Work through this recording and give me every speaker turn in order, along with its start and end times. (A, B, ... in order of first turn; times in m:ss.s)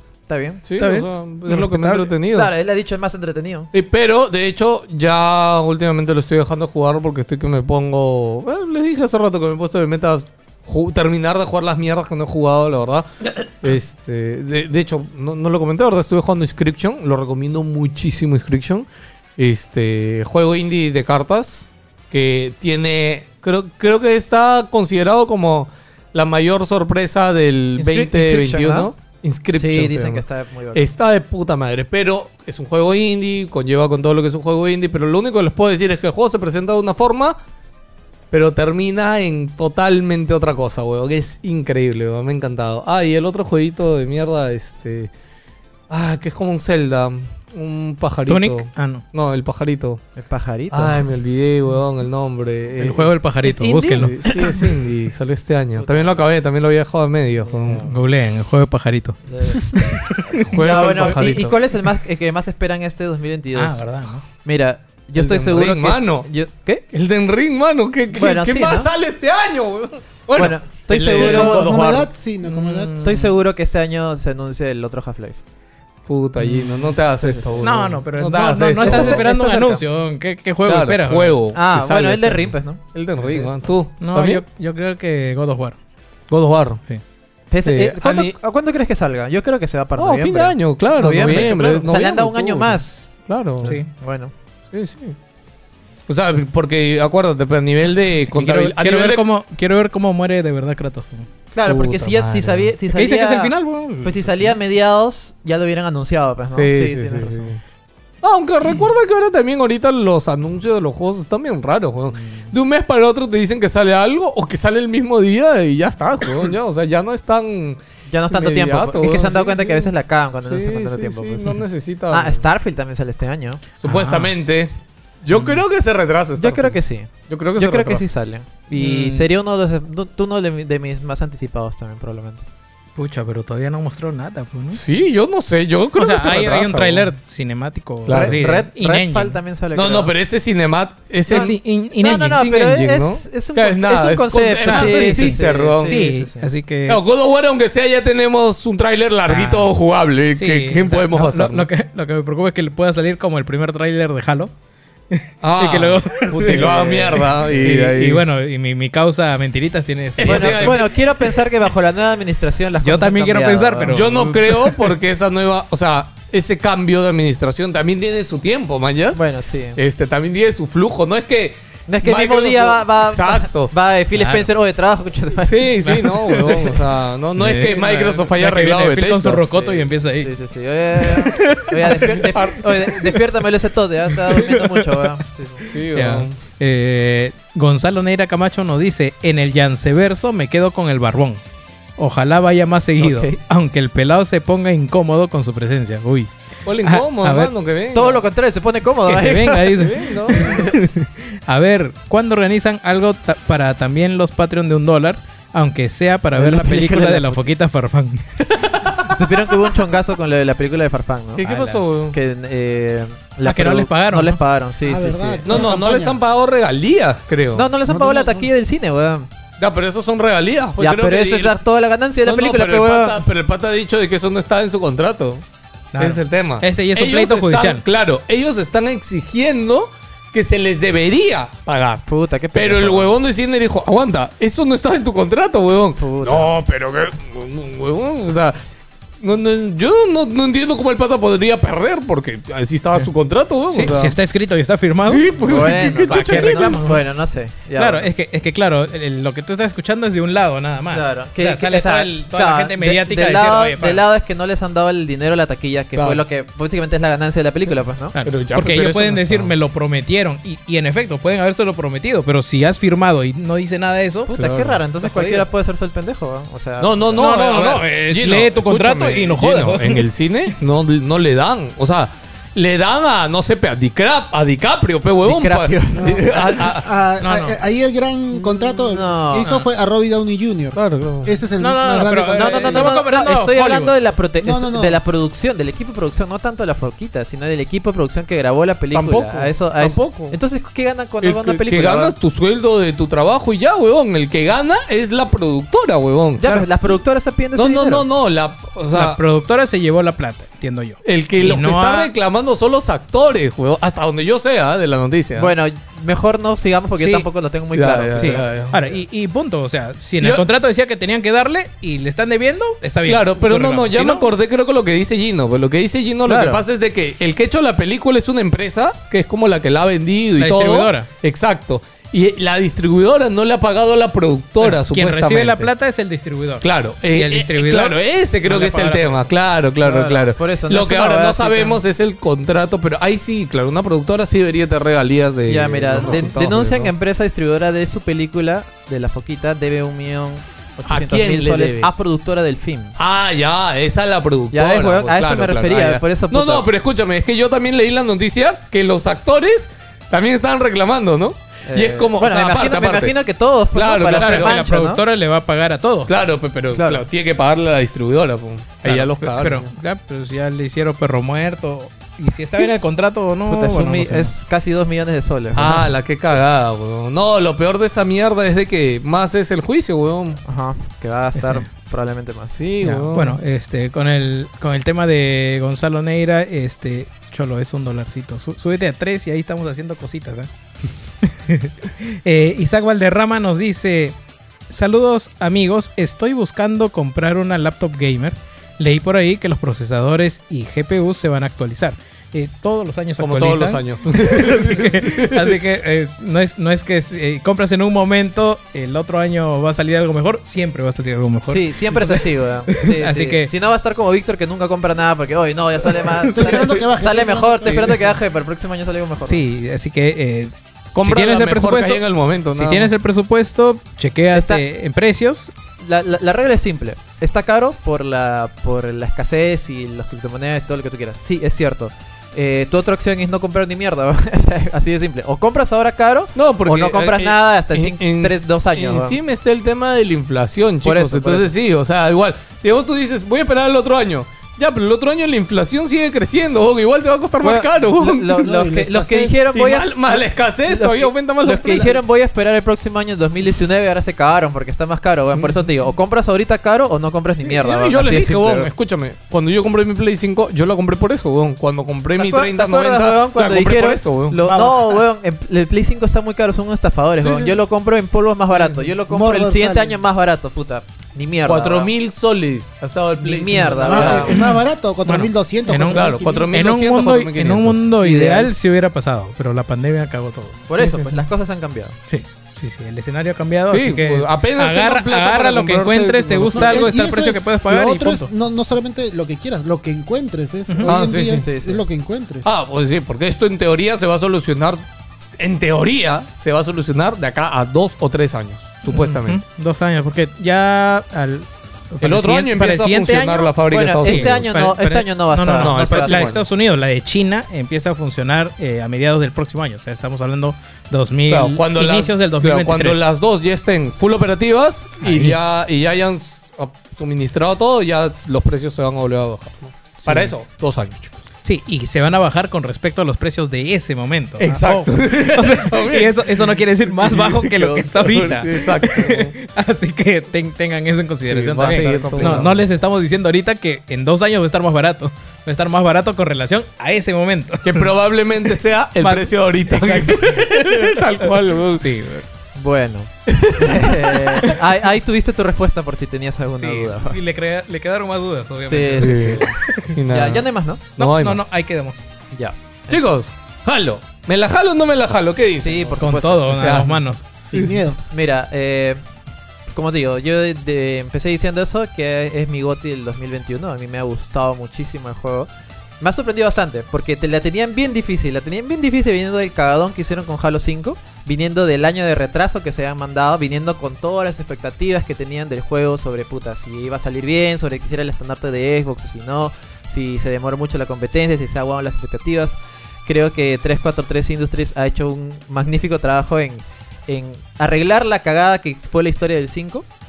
0:00.3-0:00.6 A
0:00.6-0:02.5 B
0:00.8-0:02.1 C
0:02.3-0:03.7 A
0:03.7-0:18.8 B
0:19.4-0:37.4 B
0:27.8-0:28.9 A
0:29.5-0:30.8 A
0:38.3-0:45.1 B
0:45.9-0:50.0 B
0:48.3-0:49.0 C
0:50.2-0:51.0 A
0:50.7-0:53.1 B
0:52.8-0:54.2 C
0:53.4-0:54.7 A
0:53.9-0:57.9 B
0:55.8-0:56.2 A
0:57.4-0:57.9 A
0:57.8-1:00.5 C
0:59.3-1:00.0 A
1:00.4-1:01.6 B
1:00.6-1:03.8 A
1:03.5-1:04.2 C
1:04.4-1:06.8 A
1:05.2-1:06.3 B
1:06.9-1:12.1 B
1:08.1-1:08.9 A
1:10.3-1:12.0 A
1:11.1-1:13.1 D
1:12.4-1:13.3 C
1:13.0-1:15.4 A
1:16.1-1:19.3 B
1:17.2-1:17.7 A
1:17.6-1:21.4 C
1:18.8-1:19.8 A
1:20.6-1:24.4 B
1:21.5-1:22.8 A
1:23.2-1:25.8 C
1:26.3-1:26.8 B
1:27.5-1:33.1 A
1:27.6-1:28.3 B
1:30.0-1:33.8 B
1:31.0-1:31.8 C
1:33.6-1:34.3 A
1:33.6-1:33.9 C
1:34.7-1:35.2 B
1:36.1-1:39.2 B
1:38.3-1:41.2 C
1:41.5-1:47.5 A
1:41.6-1:42.7 B
1:42.9-1:44.5 C
1:46.5-1:47.6 B
1:48.2-1:57.8 B
1:58.1-2:01.6 A
1:58.3-1:59.9 B
2:00.4-2:02.4 B
2:02.1-2:03.7 A
2:03.8-2:04.7 B
2:03.8-2:04.3 C
2:05.2-2:08.0 B
2:05.3-2:05.6 C
2:06.4-2:12.4 A
2:08.7-2:09.3 C
2:13.0-2:14.8 C
2:14.7-2:17.1 B
2:16.0-2:19.4 C
2:18.0-2:18.4 B
2:18.1-2:20.1 A
2:19.7-2:26.1 B
2:21.3-2:22.4 C
2:21.3-2:26.5 A
2:24.6-2:27.0 C
2:26.9-2:31.7 B
2:29.3-2:29.7 C
2:30.4-2:34.5 C
2:35.1-2:40.8 C
2:35.4-2:38.2 B
2:36.5-2:36.8 A
2:40.2-2:40.9 B
2:40.2-2:44.0 A
2:42.8-2:44.8 C
2:43.9-2:49.2 B
2:49.1-2:49.8 A
2:49.7-2:53.7 B
2:51.9-2:55.9 A
2:54.1-2:54.5 C
2:55.4-2:59.4 B
2:55.8-2:56.8 C
2:57.4-3:00.3 C
2:59.5-3:05.7 A
3:01.0-3:02.3 C
3:02.3-3:02.6 B
3:04.4-3:05.0 C
3:05.6-3:06.4 B
3:05.9-3:11.4 C
3:12.0-3:16.3 C
3:13.0-3:13.4 A
3:16.6-3:18.2 B
3:16.8-3:17.5 C
3:17.9-3:19.8 A
3:18.9-3:28.4 C
3:19.8-3:20.7 B
3:26.4-3:27.4 A
3:28.5-3:29.0 B
3:29.0-3:31.5 A
3:31.4-3:32.2 B
3:31.4-3:31.8 C
3:32.1-3:35.7 A
3:33.4-3:34.4 C
3:34.8-3:36.2 D
3:35.4-3:38.1 B
3:37.5-3:39.3 A
3:39.6-3:41.6 B
3:40.8-3:43.2 A
3:42.2-3:45.4 B
3:45.9-3:47.8 C
3:46.0-3:58.6 B
3:52.0-3:53.1 A
3:56.0-3:56.5 A
3:59.2-4:04.1 B
4:03.7-4:07.2 C
4:05.0-4:06.8 B
4:05.4-4:08.1 A
4:07.8-4:14.0 C
4:10.9-4:18.1 A
4:15.9-4:16.2 B
4:18.1-4:24.3 C
4:18.2-4:19.5 B
4:24.3-4:27.7 A
4:24.4-4:25.4 B
4:26.8-4:36.9 B
4:27.2-4:30.0 C
4:35.2-4:36.6 A
4:35.9-4:43.0 D
4:37.2-4:37.6 C
4:38.8-4:39.6 A
4:40.7-4:41.3 B
4:41.6-4:43.9 C
4:42.3-4:52.1 A
4:44.4-4:45.0 D
4:48.9-4:50.4 B
4:51.2-4:56.7 B
4:56.4-4:58.0 A
4:57.5-4:59.2 B
4:58.9-5:02.1 C
5:01.0-5:05.5 B
5:05.4-5:08.7 A
5:07.0-5:07.3 C
5:07.7-5:08.8 B
5:08.2-5:14.3 C
5:13.0-5:25.7 B
5:16.2-5:16.6 A
5:20.4-5:21.1 C
5:24.6-5:29.3 C
5:26.6-5:36.9 B
5:29.8-5:31.8 A
5:35.5-5:43.0 A
5:40.9-5:41.9 B
5:43.0-5:53.1 B
5:44.5-5:46.6 A
5:51.7-5:55.0 A
5:53.7-5:54.6 B
5:54.1-5:56.1 C
5:56.1-5:59.7 B
5:56.7-5:57.0 A
5:58.8-6:04.3 C
6:03.5-6:05.9 A
6:05.5-6:10.4 B
6:10.4-6:12.6 A
6:11.3-6:11.6 C
6:12.5-6:13.4 B
6:12.8-6:20.5 C
6:21.2-6:24.1 C
6:24.7-6:43.5 C
6:33.2-6:35.6 B
6:41.4-6:49.4 A
6:46.0-6:46.5 C
6:46.3-6:48.1 D
6:49.2-6:55.5 C
6:50.9-6:52.9 B
6:54.3-6:54.6 A
6:55.8-7:09.2 A
7:06.4-7:18.6 B
7:10.8-7:11.5 A
7:17.4-7:28.7 A
7:18.3-7:19.4 D
7:19.5-7:22.0 B
7:27.4-7:34.4 B
7:32.2-7:41.9 A
7:34.4-7:34.8 D
7:37.2-7:37.6 B
7:38.5-7:38.8 B
7:39.1-7:40.0 D
7:41.4-7:44.4 B
7:43.2-7:44.4 A
7:43.8-7:46.5 D
7:44.3-7:50.7 C
7:45.9-7:47.9 B
7:48.0-7:48.5 A
7:50.7-7:51.9 A
7:50.8-7:51.1 B
7:52.1-7:58.3 C
7:53.7-7:56.9 B
7:56.5-8:02.4 D
8:00.7-8:00.9 C
8:00.8-8:01.5 B
8:01.3-8:01.8 A
8:02.4-8:09.4 B
8:08.9-8:23.0 C
8:12.0-8:14.5 B
8:13.7-8:16.4 A
8:15.6-8:16.4 B
8:21.3-8:31.2 B
8:25.0-8:25.4 C
8:30.0-8:30.3 C
8:31.4-8:47.9 C
8:34.4-8:39.3 B
8:41.2-8:42.6 B
8:41.6-8:42.5 A
8:47.6-8:52.0 B
8:49.0-8:52.2 C
8:52.5-8:57.2 A
8:53.3-8:54.5 B
8:56.6-9:00.0 C
8:58.6-8:59.6 A
8:59.0-9:01.6 B
9:00.1-9:00.8 A
9:01.0-9:02.0 C
9:02.3-9:03.0 A
9:02.9-9:06.0 B
9:05.6-9:06.8 A
9:06.0-9:07.2 C
9:06.6-9:06.9 B
9:07.5-9:08.0 D
9:08.1-9:09.0 A
9:09.7-9:39.8 A